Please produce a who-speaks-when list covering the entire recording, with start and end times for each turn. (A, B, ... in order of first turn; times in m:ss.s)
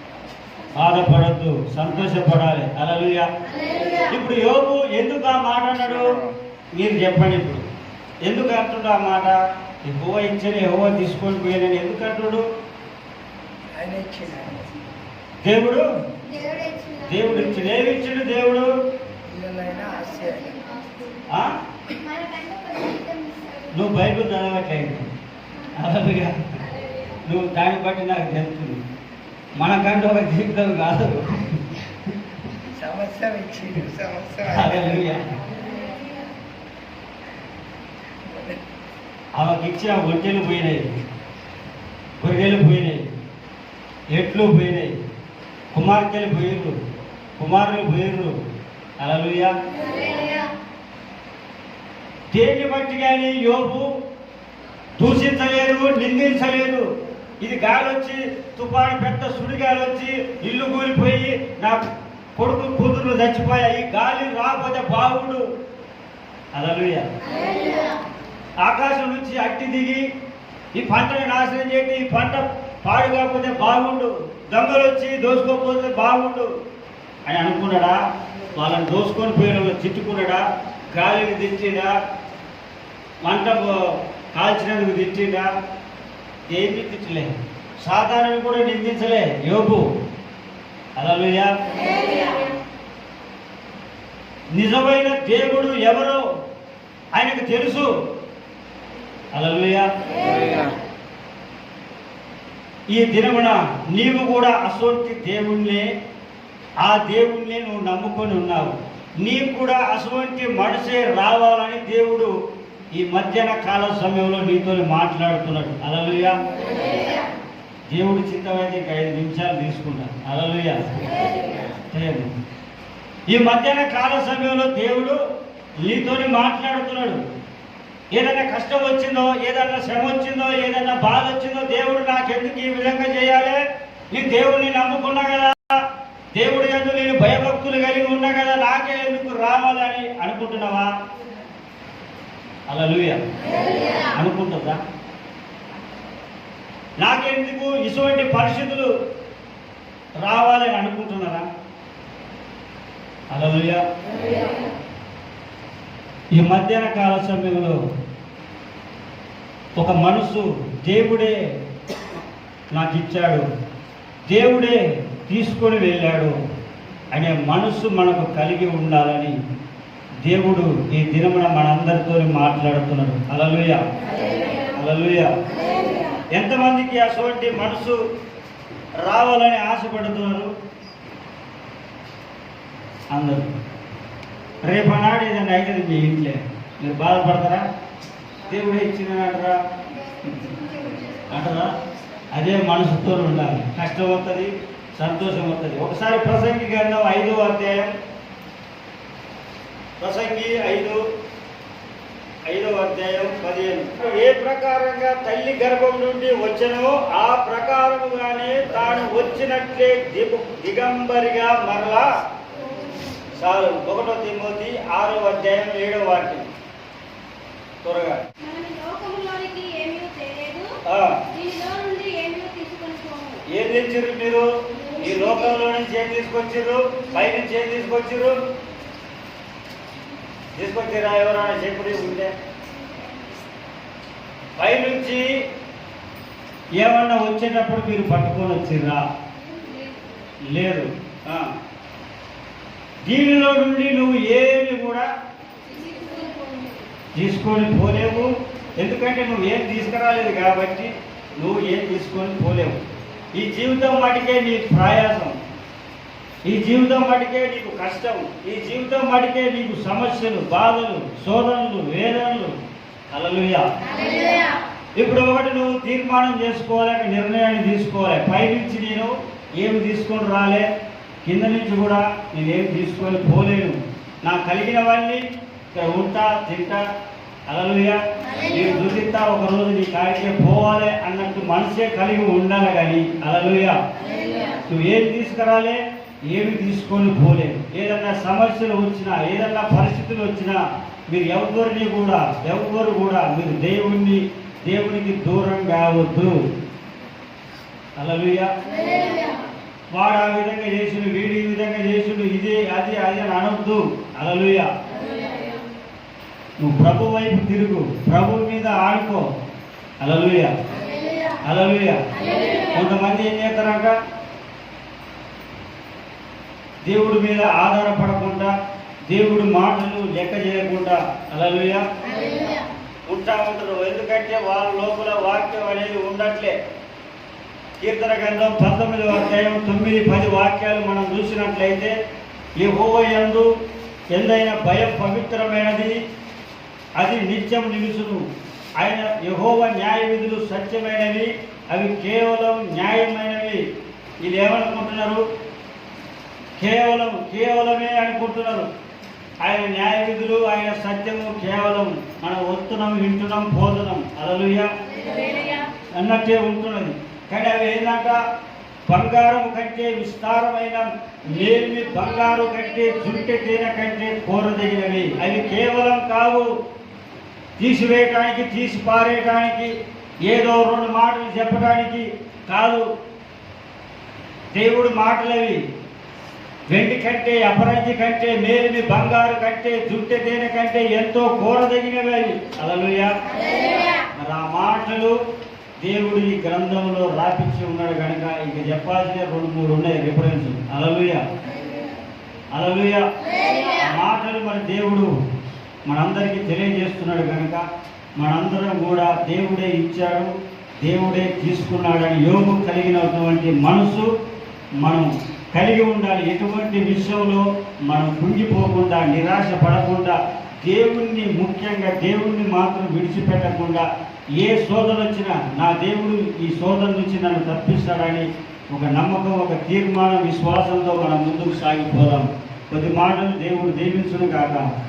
0:00.7-0:03.3 A
0:04.1-0:07.6 A
0:08.2-0:12.4 A
0:13.7-0:14.7 B
0:15.4-0:15.8 A
0:16.4-0:17.0 C
0:17.0-0:18.7 A
0:19.3-0:20.8 B
0:21.3-0:21.5 A
0:22.0-0:23.7 C
0:23.7-0:25.1 A
0:25.8-0:26.5 A
0:27.2-0:28.8 A
0:29.6-0:31.9 A
0:32.7-0:34.8 B
0:34.4-0:35.4 A
0:38.3-0:38.6 B
0:39.4-0:40.9 A
0:42.2-0:43.1 A
0:44.1-0:44.9 A
0:45.7-0:46.8 A
0:47.4-0:48.4 A
0:49.0-0:49.5 A
0:52.3-0:53.9 A
0:55.0-0:56.8 A
0:57.4-1:01.8 A
1:02.4-1:05.4 A
1:06.5-1:07.1 A
1:08.6-1:10.0 A
1:10.7-1:16.5 A
1:17.3-1:18.0 A
1:18.5-1:21.9 A
1:23.2-1:25.5 A
1:26.4-1:29.8 A
1:31.0-1:31.5 A
1:34.5-1:36.2 A
1:37.1-1:37.9 A
1:39.3-1:39.9 A
1:42.9-1:45.9 A
1:46.8-1:52.3 A
1:52.9-1:56.4 A
1:57.9-2:00.9 A
2:01.9-2:02.3 A
2:03.3-2:05.2 A
2:05.8-2:07.2 A
2:08.1-2:20.9 A
2:22.7-2:23.2 A
2:24.1-2:24.8 A
2:27.0-2:28.9 A
2:30.2-2:31.4 A
2:33.3-2:33.8 A
2:36.3-2:37.8 A
2:39.8-2:41.4 A
2:42.7-2:43.5 A
2:44.3-2:46.4 A
2:47.1-2:49.3 A
2:50.2-2:53.8 A
2:54.7-2:55.3 A
2:56.4-2:58.0 A
2:59.0-3:00.5 A
3:03.1-3:03.5 A
3:04.6-3:07.6 A
3:08.4-3:09.6 A
3:10.2-3:11.7 A
3:12.3-3:17.9 A
3:20.0-3:21.0 A
3:22.5-3:32.1 A
3:33.3-3:36.5 A
3:37.8-3:38.2 A
3:38.4-3:43.4 C
3:40.8-3:41.2 A
3:43.5-3:48.4 A
3:50.6-3:52.3 A
3:54.6-3:55.3 A
3:56.8-3:59.0 A
3:59.4-4:00.1 C
4:00.5-4:01.5 A
4:03.0-4:05.1 A
4:05.6-4:06.8 C
4:07.1-4:12.8 A
4:13.3-4:15.4 A
4:16.4-4:22.6 A
4:23.1-4:23.6 A
4:25.0-4:30.7 A
4:31.2-4:36.8 A
4:37.5-4:43.8 A
4:44.6-4:56.4 A
4:58.0-4:58.5 A
4:59.9-5:04.7 A
5:06.6-5:09.3 A
5:10.0-5:10.5 A
5:11.4-5:12.0 A
5:12.6-5:13.9 A
5:16.8-5:18.5 A
5:19.1-5:21.9 A
5:23.1-5:26.6 A
5:27.8-5:31.9 A
5:32.6-5:33.5 A
5:34.1-5:36.0 A
5:37.0-5:38.2 A
5:38.8-5:43.6 A
5:44.2-5:45.2 A
5:46.6-5:48.7 A
5:49.4-5:54.7 A
5:55.1-5:55.6 C
5:55.9-5:58.2 A
5:58.9-6:06.5 A
6:07.6-6:12.9 A
6:14.5-6:15.6 A
6:16.7-6:23.2 A
6:24.2-6:25.2 A
6:25.8-6:31.2 A
6:32.5-6:35.1 A
6:35.9-6:37.6 A
6:38.2-6:44.1 A
6:44.8-6:53.8 A
6:54.4-7:04.6 A